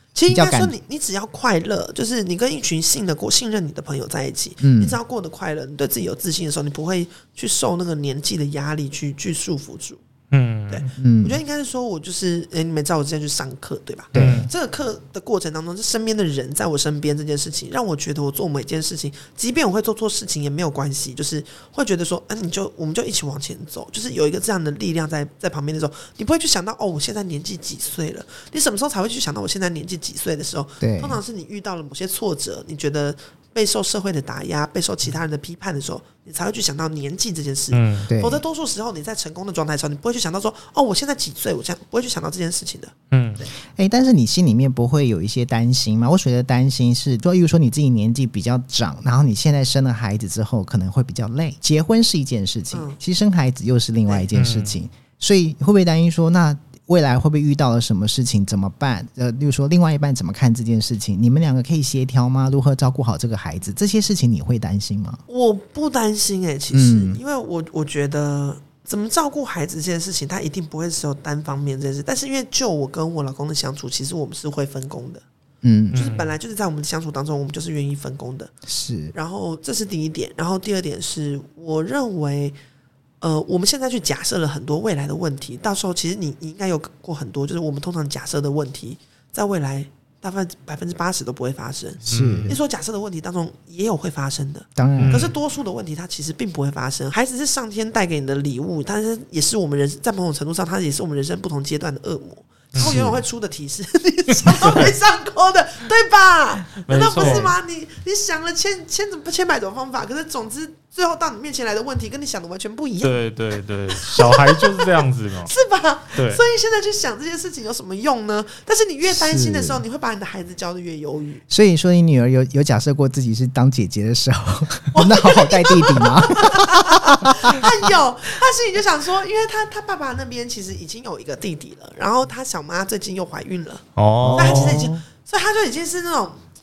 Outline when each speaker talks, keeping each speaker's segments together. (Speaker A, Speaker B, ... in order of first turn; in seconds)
Speaker A: 0.1-10.0, 10.7-42.9, 52.7-53.0, 65.3-75.2, 75.9-78.5, 79.1-82.6, 83.2-113.2, 114.0-114.9, 115.5-121.4, 124.9-133.8, 134.4-136.4
Speaker B: 0.3-0.8, 4.6-5.0, 11.0-11.4, 14.1-14.5, 30.8-31.2, 38.1-38.4, 43.7-65.2, 66.7-67.2, 75.6-76.1, 78.7-79.1, 92.0-92.6, 94.8-95.3, 102.8-103.2, 119.0-119.8, 121.5-127.7, 134.2-134.9
Speaker C: 10.3-10.9, 14.2-14.5, 37.7-38.1, 43.1-43.5, 54.3-54.8, 75.9-76.3, 92.1-92.5, 95.0-95.3, 102.7-103.1, 104.5-104.9, 106.8-107.5, 113.0-115.5, 116.2-116.4, 134.0-135.0